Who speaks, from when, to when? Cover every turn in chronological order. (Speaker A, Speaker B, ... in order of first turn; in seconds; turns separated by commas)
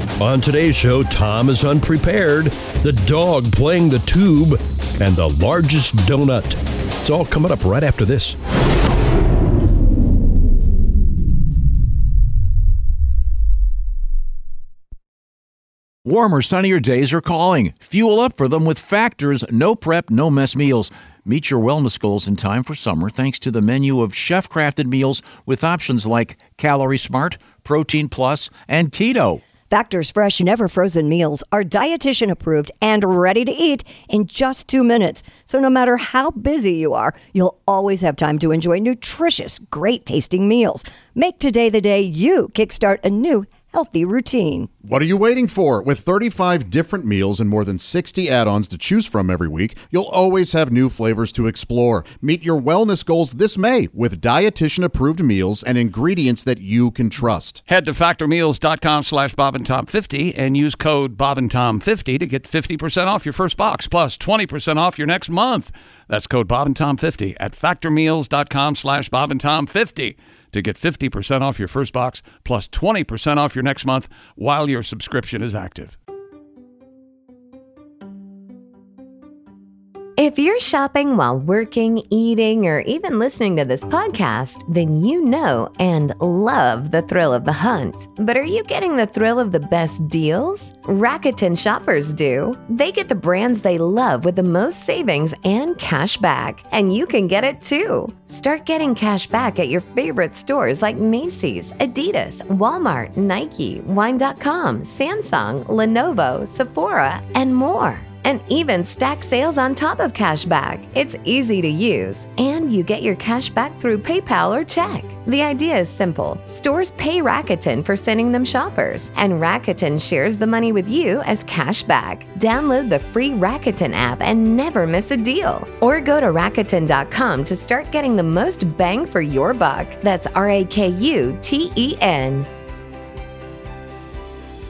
Speaker A: 0.2-8.4, Speaker B: 16.0-29.4, Speaker C: 29.7-44.7, Speaker D: 44.8-57.6, Speaker E: 57.7-76.0, Speaker F: 80.2-132.5